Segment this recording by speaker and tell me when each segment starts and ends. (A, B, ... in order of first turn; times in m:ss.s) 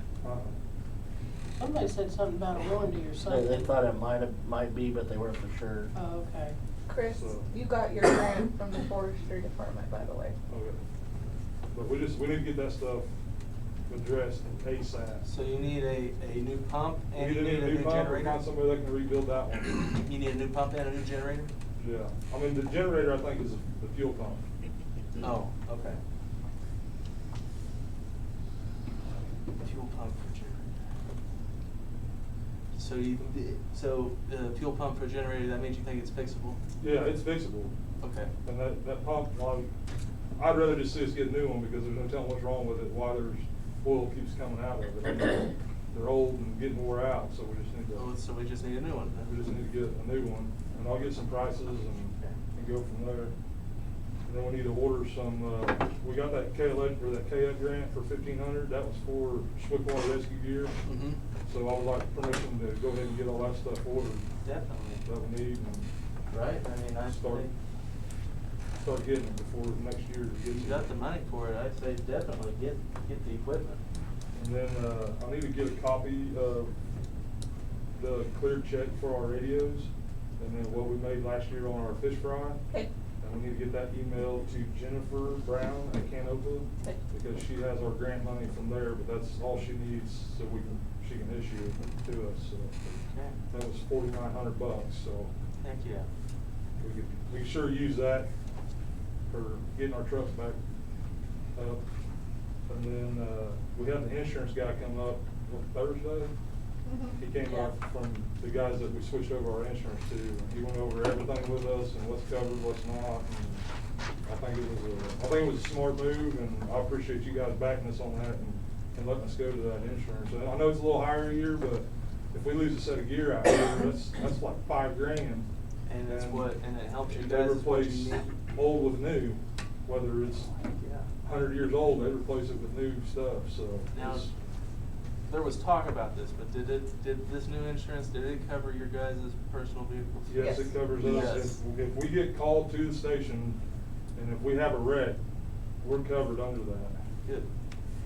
0:00.2-0:00.6 A
0:01.6-0:03.7 B
0:03.3-0:05.9 C
0:05.9-0:06.6 B
0:06.9-0:10.4 D
0:07.1-0:07.5 A
0:10.5-0:10.8 A
0:11.7-0:13.1 A
0:13.9-0:15.3 A
0:15.2-0:18.4 E
0:17.1-0:20.0 A
0:19.6-0:21.5 E
0:21.8-0:24.4 A
0:25.2-0:26.0 E
0:29.6-0:30.7 E
0:32.7-0:36.6 E
0:36.8-0:37.7 A
0:38.0-0:38.3 E
0:38.4-0:39.7 A
0:40.4-0:48.1 A
0:47.9-0:49.3 E
0:49.2-0:53.3 A
0:54.3-1:00.8 A
1:00.9-1:01.2 E
1:01.4-1:04.3 A
1:04.4-1:05.0 E
1:05.0-1:05.9 A
1:06.3-1:07.5 E
1:07.0-1:07.5 A
1:08.8-1:10.9 A
1:10.5-1:13.8 E
1:14.4-1:16.7 A
1:18.0-1:22.6 A
1:23.2-1:32.8 A
1:32.9-1:33.4 E
1:33.5-1:35.3 A
1:35.6-1:36.1 E
1:36.8-1:38.3 A
1:39.3-1:40.6 A
1:41.6-1:41.8 A
1:42.7-1:46.3 A
1:46.9-1:47.7 D
1:47.2-1:53.6 A
1:54.3-2:05.5 A
2:05.9-2:08.3 E
2:06.0-2:10.5 A
2:10.8-2:11.1 E
2:11.2-2:14.3 A
2:13.9-2:14.3 E
2:15.3-2:20.3 E
2:20.3-2:23.6 A
2:20.4-2:21.4 D
2:21.0-2:21.6 E
2:24.2-2:25.2 A
2:25.8-2:27.0 A